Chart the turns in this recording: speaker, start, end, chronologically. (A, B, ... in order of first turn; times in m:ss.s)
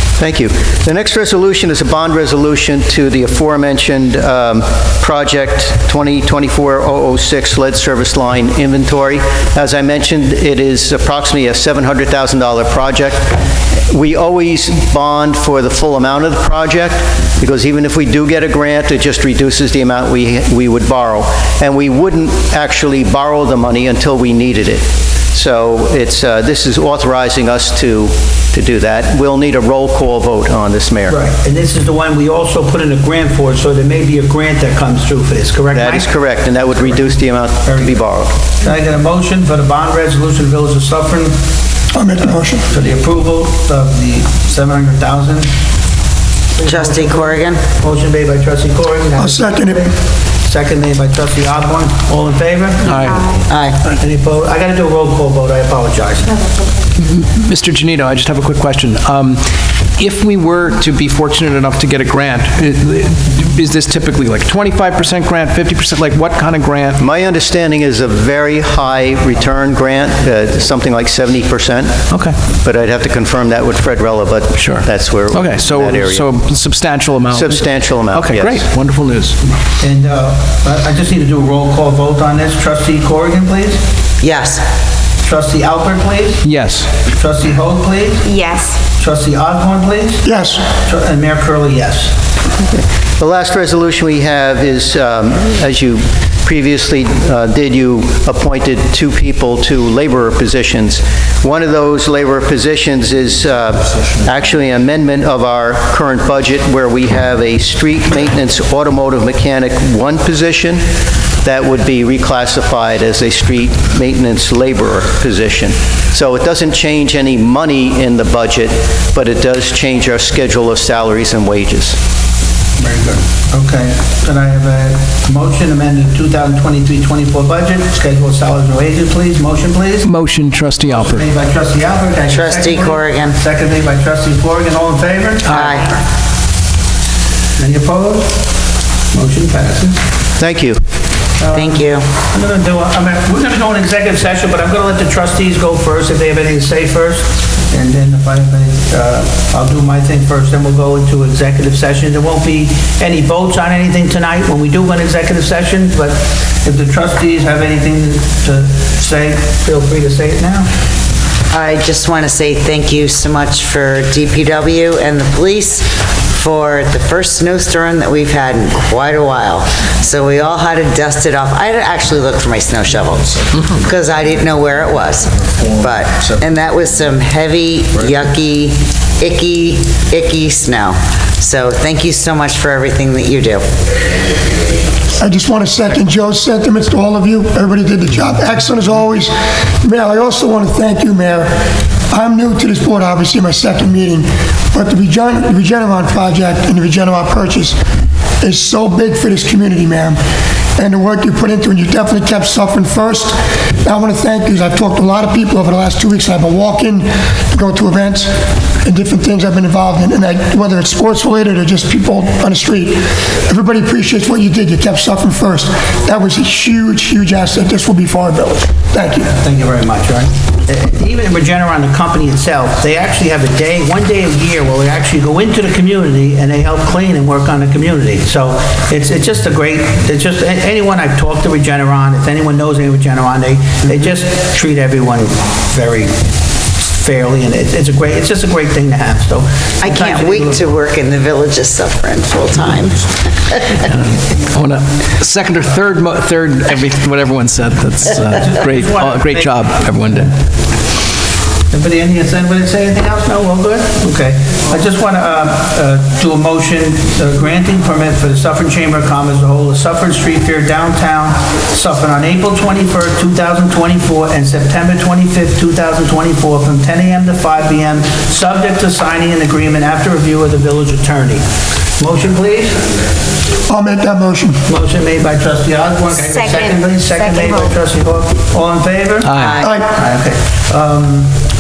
0:00.2-0:13.4 A
0:13.9-0:31.2 A
0:31.1-0:36.1 B
0:35.7-0:38.4 A
0:37.6-0:38.0 B
0:38.6-0:41.4 B
0:41.9-0:42.7 C
0:42.7-0:45.5 B
0:46.5-0:49.9 B
0:46.6-0:47.6 D
0:49.2-0:49.9 C
0:50.4-0:53.0 B
0:52.8-0:53.3 E
0:53.1-0:53.8 D
0:53.9-0:56.4 B
0:57.0-0:59.5 E
1:00.0-1:07.0 E
1:07.0-1:12.0 A
1:12.1-1:12.4 E
1:12.6-1:16.3 A
1:14.6-1:19.4 E
1:17.3-1:18.6 A
1:19.8-1:23.8 B
1:24.2-1:24.7 D
1:25.2-1:26.4 B
1:26.4-1:26.9 E
1:27.0-1:28.3 B
1:28.3-1:28.8 D
1:29.0-1:32.2 B
1:30.2-1:30.6 C
1:32.7-1:50.8 A
1:51.4-2:02.0 A
2:02.8-2:10.1 B
2:10.0-2:11.2 E
2:10.9-2:15.8 B
2:12.3-2:13.4 D
2:15.5-2:16.0 D
2:17.6-2:18.5 B
2:19.1-2:20.0 B
2:20.4-2:20.8 A
2:21.4-2:40.7 B
2:21.5-2:22.1 D
2:41.5-3:03.7 D
3:05.2-3:11.5 C
3:12.1-3:17.8 C
3:18.4-3:20.2 C
3:20.8-3:28.3 C
3:28.8-3:39.3 C
3:39.3-3:56.2 B
3:56.8-4:00.7 B
3:59.8-4:03.8 D
4:03.8-4:10.4 E
4:08.4-4:09.6 B
4:11.7-4:31.4 B
4:32.0-4:32.8 B
4:33.7-4:34.6 C
4:34.7-4:41.4 B
4:36.2-4:37.7 D
4:39.2-4:39.6 E
4:39.4-4:39.7 D
4:39.6-4:39.9 C